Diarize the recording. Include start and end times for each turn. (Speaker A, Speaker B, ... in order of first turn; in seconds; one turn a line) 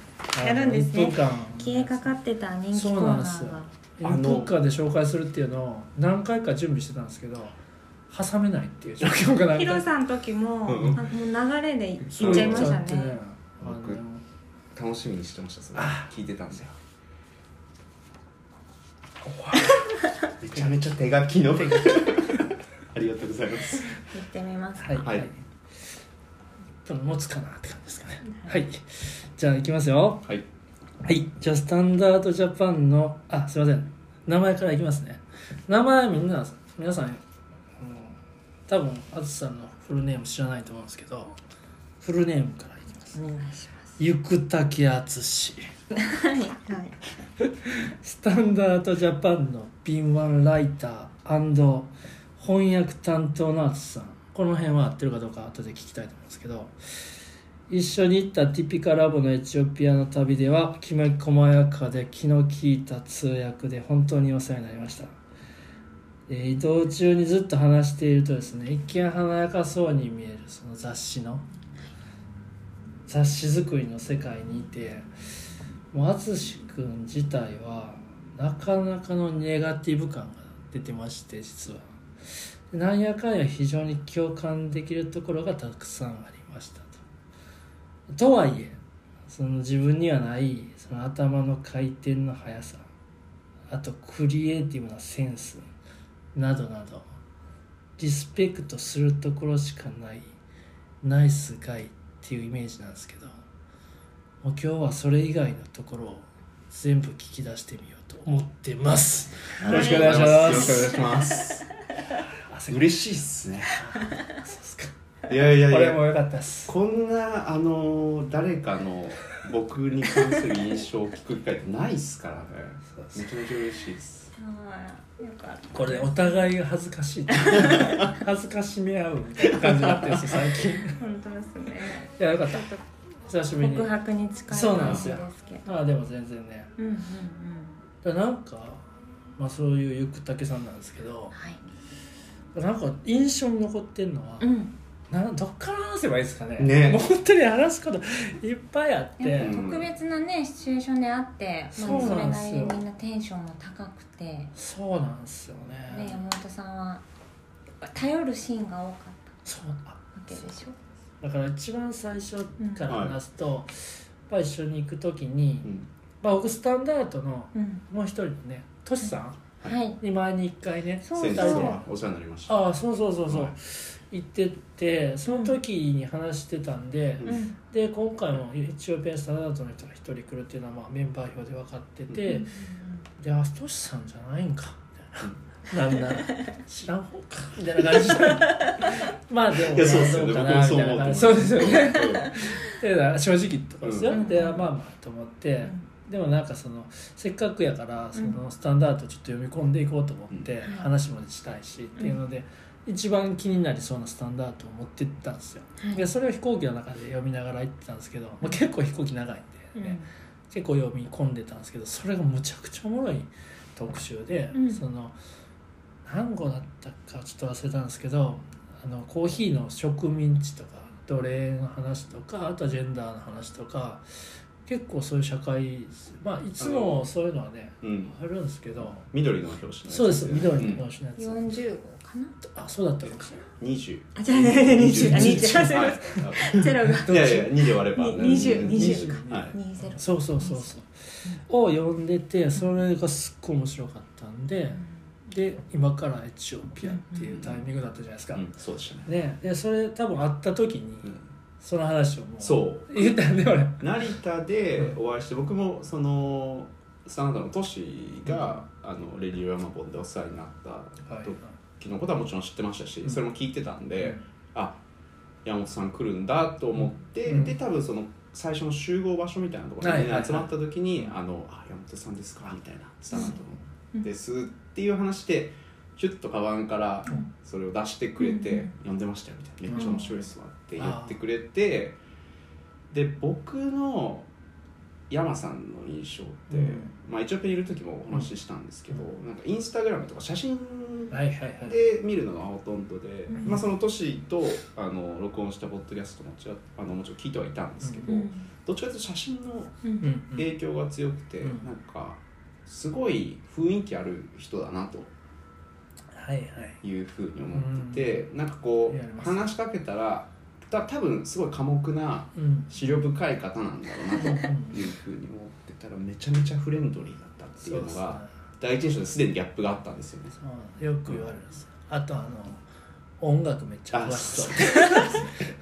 Speaker A: 0.3-2.1
Speaker B: 0.4-3.7
Speaker A: 2.7-7.6
Speaker C: 4.0-4.6
Speaker A: 8.1-9.9
Speaker B: 9.5-13.2
Speaker C: 10.7-11.1
Speaker C: 12.1-12.8
Speaker A: 12.2-14.2
Speaker C: 13.6-14.0
Speaker C: 14.7-16.7
Speaker A: 15.7-16.7
Speaker C: 19.2-23.9
Speaker B: 23.9-25.0
Speaker A: 24.8-25.4
Speaker C: 25.0-25.3
Speaker A: 26.8-30.3
Speaker A: 31.0-37.2
Speaker A: 37.8-38.2
Speaker A: 38.7-41.3
Speaker A: 42.0-43.4
Speaker B: 43.1-43.9
Speaker A: 44.0-45.7
Speaker B: 45.9-47.0
Speaker A: 47.4-57.1
Speaker A: 57.7-65.1
Speaker A: 66.3-71.5
Speaker A: 73.1-75.1
Speaker A: 75.9-81.9
Speaker A: 82.4-87.0
Speaker A: 88.1-92.9
Speaker A: 93.7-95.7
Speaker A: 96.3-97.0
Speaker A: 98.0-100.3
Speaker A: 101.0-103.3
Speaker A: 104.4-110.9
Speaker B: 109.6-111.5
Speaker C: 109.6-111.7
Speaker A: 112.5-112.9
Speaker C: 112.7-113.8
Speaker A: 113.7-114.9
Speaker C: 115.3-116.0
Speaker A: 115.5-116.7
Speaker C: 116.7-124.3
Speaker A: 122.9-123.3
Speaker B: 124.3-126.5
Speaker A: 125.7-131.0
Speaker B: 127.3-128.1
Speaker C: 129.5-130.3
Speaker B: 130.9-132.8
Speaker A: 132.2-132.7
Speaker A: 133.3-133.9
Speaker B: 133.6-135.6
Speaker A: 134.5-136.7
Speaker C: 134.8-135.2
Speaker B: 136.8-137.8
Speaker A: 138.0-138.8
Speaker A: 139.4-141.3
Speaker B: 141.3-141.6
Speaker A: 142.5-144.4
Speaker B: 144.4-144.7
Speaker A: 145.1-149.5
Speaker C: 146.6-147.0
Speaker B: 149.2-154.5
Speaker C: 149.4-149.9
Speaker A: 151.7-152.8
Speaker C: 151.9-152.2
Speaker A: 154.5-156.2
Speaker B: 155.9-157.0
Speaker B: 157.8-159.4
Speaker A: 159.4-160.0
Speaker B: 160.2-160.8
Speaker A: 161.2-169.4
Speaker B: 162.6-162.9
Speaker C: 162.9-163.2
Speaker B: 167.5-167.8
Speaker B: 169.6-170.0
Speaker A: 170.0-171.8
Speaker B: 171.0-171.8
Speaker C: 171.1-172.6
Speaker A: 172.5-182.5
Speaker C: 173.3-173.5
Speaker B: 175.2-175.6
Speaker B: 177.2-177.6
Speaker B: 182.3-183.0
Speaker A: 183.2-215.1
Speaker B: 188.2-188.8
Speaker C: 189.6-192.4
Speaker B: 192.0-192.5
Speaker C: 193.8-194.1
Speaker B: 194.1-194.7
Speaker B: 200.6-200.9
Speaker B: 205.8-206.1
Speaker B: 209.7-210.1
Speaker B: 214.5-214.8
Speaker A: 216.0-229.1
Speaker C: 226.6-227.1
Speaker C: 227.8-228.1
Speaker C: 228.8-230.8
Speaker A: 229.9-231.6
Speaker B: 231.2-232.4
Speaker A: 232.4-233.4
Speaker C: 233.0-239.6
Speaker B: 234.2-240.7
Speaker A: 234.8-235.9
Speaker A: 238.4-248.4
Speaker B: 246.8-247.3
Speaker C: 247.3-247.6
Speaker C: 248.3-249.1
Speaker A: 249.0-253.8
Speaker C: 252.4-253.1
Speaker C: 253.8-264.8
Speaker A: 261.1-261.5
Speaker C: 265.4-282.0
Speaker A: 267.2-267.5
Speaker A: 269.8-271.1
Speaker B: 278.2-278.7
Speaker A: 279.7-280.0
Speaker B: 279.7-280.1
Speaker A: 280.8-281.2
Speaker C: 282.9-284.3
Speaker C: 285.1-299.8
Speaker A: 286.5-286.9
Speaker A: 291.1-291.8
Speaker B: 293.3-293.6
Speaker A: 297.8-298.1
Speaker B: 298.1-298.5
Speaker A: 300.0-300.5
Speaker C: 300.3-305.1
Speaker A: 301.4-301.7
Speaker A: 306.1-306.8
Speaker C: 306.8-320.4
Speaker A: 307.5-308.2
Speaker A: 308.9-309.5
Speaker A: 312.3-312.7
Speaker A: 314.1-314.8
Speaker A: 317.6-318.3
Speaker A: 320.4-322.6
Speaker A: 323.2-325.3
Speaker C: 323.9-325.4